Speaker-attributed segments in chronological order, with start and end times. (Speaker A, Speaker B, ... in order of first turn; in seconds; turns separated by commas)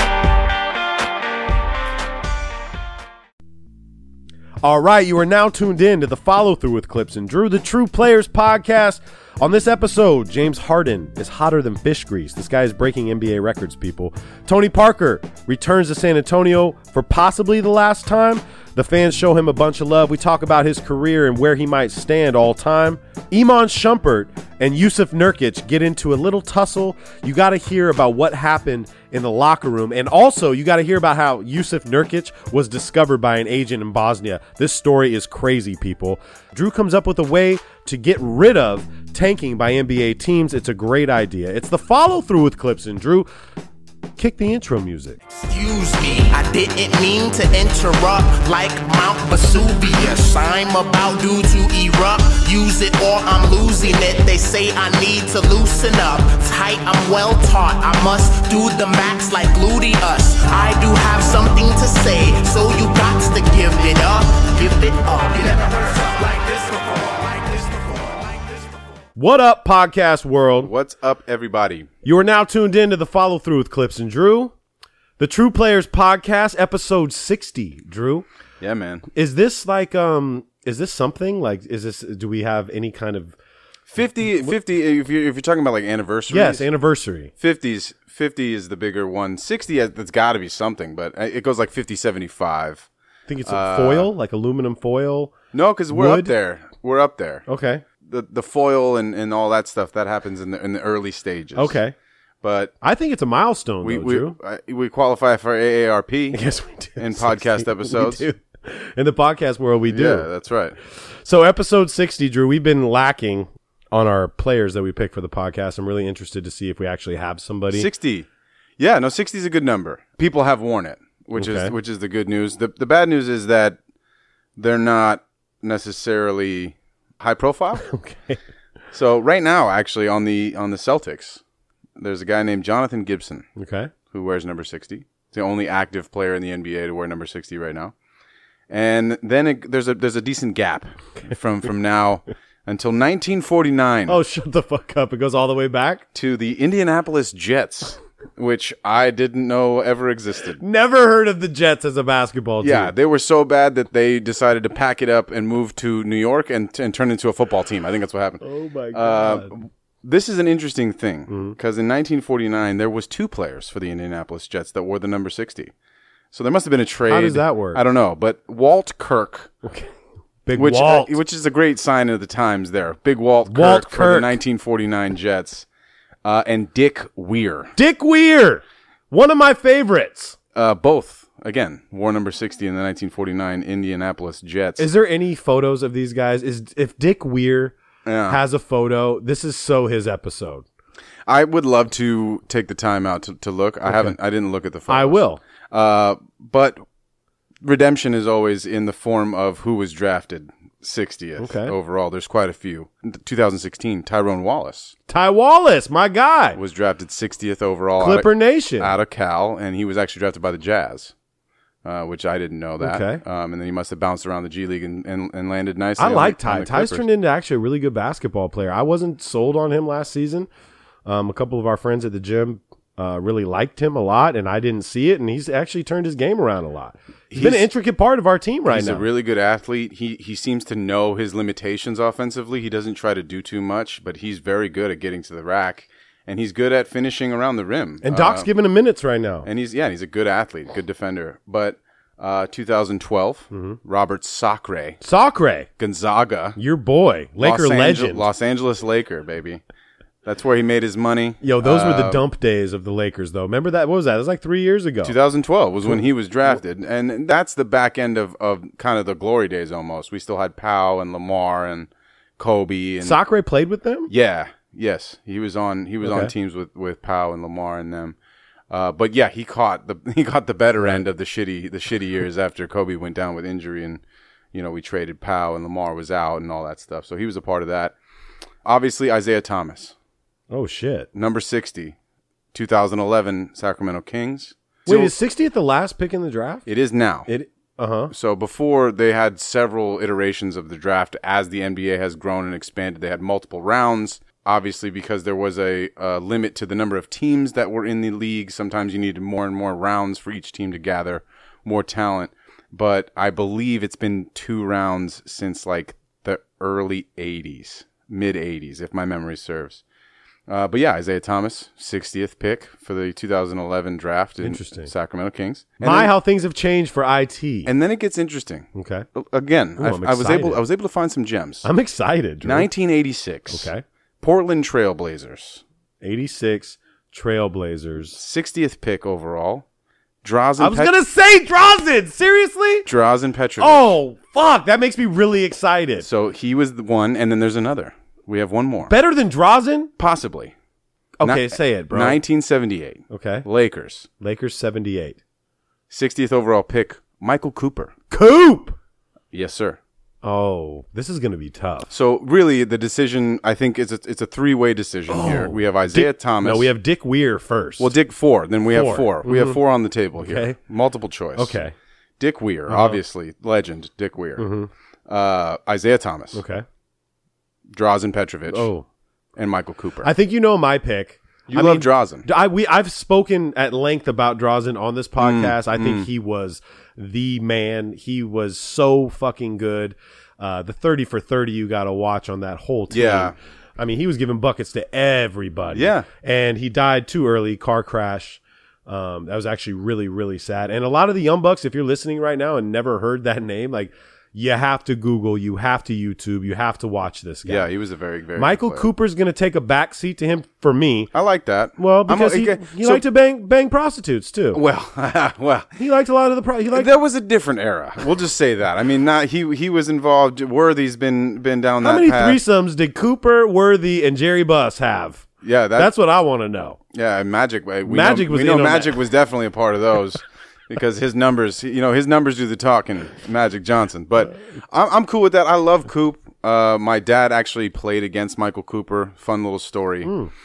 Speaker A: 4.6-43.3, Speaker A: 44.2-45.2, Speaker B: 45.5-68.5, Speaker A: 69.2-70.7, Speaker C: 70.6-71.9, Speaker A: 72.0-74.5, Speaker A: 75.2-78.3, Speaker C: 78.6-79.1, Speaker A: 79.1-83.3, Speaker C: 83.9-86.7, Speaker A: 86.3-87.3, Speaker C: 87.4-92.9, Speaker A: 93.3-95.3, Speaker C: 93.5-94.1, Speaker C: 95.5-97.5, Speaker A: 95.9-96.3, Speaker A: 97.5-97.8, Speaker C: 98.0-101.8, Speaker A: 101.5-101.9, Speaker C: 102.4-102.7, Speaker A: 102.8-104.4, Speaker C: 103.8-106.4, Speaker A: 106.3-110.3, Speaker C: 107.0-108.2, Speaker C: 109.9-110.8, Speaker A: 111.2-117.9, Speaker C: 117.7-118.3, Speaker C: 118.8-123.8, Speaker A: 121.4-121.7, Speaker C: 124.6-127.8, Speaker A: 127.8-128.4, Speaker C: 128.9-131.4, Speaker C: 132.0-133.5, Speaker A: 133.6-133.9, Speaker C: 134.1-137.9, Speaker C: 138.7-144.2, Speaker A: 144.1-146.0, Speaker C: 146.1-150.6, Speaker A: 150.6-152.9, Speaker C: 152.6-158.4, Speaker A: 158.4-159.5, Speaker C: 158.9-165.7, Speaker A: 161.3-161.6, Speaker C: 166.3-169.5, Speaker A: 167.1-167.8, Speaker A: 169.6-169.9, Speaker A: 170.5-171.2, Speaker C: 170.6-175.7, Speaker A: 173.5-174.4, Speaker C: 176.2-177.7, Speaker A: 177.8-180.4, Speaker C: 180.6-184.9, Speaker A: 184.8-187.8, Speaker C: 188.1-188.4, Speaker A: 188.3-190.7, Speaker C: 191.3-196.8, Speaker A: 193.9-194.2, Speaker A: 194.9-195.4, Speaker C: 197.6-204.9, Speaker A: 201.4-201.7, Speaker A: 205.1-206.6, Speaker C: 206.6-211.1, Speaker A: 208.0-208.9, Speaker C: 211.8-217.0, Speaker A: 212.8-213.2, Speaker A: 216.0-220.5, Speaker A: 221.1-229.1, Speaker C: 227.3-227.7, Speaker C: 228.7-238.5, Speaker A: 238.0-239.5, Speaker C: 239.4-245.0, Speaker A: 243.5-243.8, Speaker A: 245.0-245.7, Speaker C: 245.8-246.6, Speaker A: 246.6-248.3, Speaker C: 247.4-249.6, Speaker C: 250.2-252.2, Speaker A: 251.4-255.2, Speaker C: 255.0-263.2, Speaker A: 263.0-264.1, Speaker C: 264.1-268.2, Speaker A: 266.0-266.3, Speaker C: 268.7-274.0, Speaker C: 274.5-277.9, Speaker C: 278.6-279.9, Speaker A: 280.5-281.1, Speaker C: 281.1-282.0, Speaker C: 282.5-285.1, Speaker A: 284.9-286.6, Speaker C: 286.7-287.3, Speaker A: 287.3-288.1, Speaker C: 288.1-309.8, Speaker C: 310.5-316.1, Speaker A: 314.4-314.9, Speaker A: 315.8-317.7, Speaker C: 317.7-321.7, Speaker A: 318.8-319.1, Speaker A: 319.8-320.6, Speaker A: 321.6-322.7, Speaker C: 322.4-323.7, Speaker A: 323.5-323.8, Speaker C: 324.2-325.6, Speaker A: 326.0-328.2, Speaker C: 328.1-329.6, Speaker C: 330.2-330.9, Speaker A: 330.6-332.9, Speaker C: 332.9-333.9, Speaker A: 333.6-336.1, Speaker C: 336.0-338.9, Speaker A: 338.9-339.9, Speaker C: 340.0-340.5, Speaker A: 341.2-342.2, Speaker C: 341.2-344.1, Speaker A: 343.1-343.5, Speaker A: 344.2-345.2, Speaker C: 345.9-347.9, Speaker A: 348.1-348.8, Speaker C: 349.3-349.8, Speaker A: 350.2-351.9, Speaker C: 351.9-356.7, Speaker A: 355.1-357.9, Speaker C: 357.8-361.6, Speaker A: 358.7-359.6, Speaker A: 360.2-360.6, Speaker A: 361.4-361.7, Speaker C: 362.2-364.5, Speaker A: 362.7-363.0, Speaker A: 364.4-364.7, Speaker C: 365.1-366.4, Speaker A: 366.3-366.6, Speaker C: 367.7-368.7, Speaker A: 368.5-368.9, Speaker C: 369.4-370.1, Speaker A: 370.0-397.7, Speaker C: 371.5-372.3, Speaker C: 375.2-376.1, Speaker C: 382.9-383.4, Speaker C: 385.7-386.1, Speaker C: 397.5-398.9, Speaker A: 398.4-401.1, Speaker C: 401.1-403.0, Speaker A: 401.8-404.6, Speaker C: 404.5-405.7, Speaker A: 405.8-406.9, Speaker C: 406.7-412.4, Speaker A: 411.8-416.8, Speaker C: 415.4-415.9, Speaker C: 416.9-430.2, Speaker A: 417.9-419.0, Speaker A: 430.0-430.3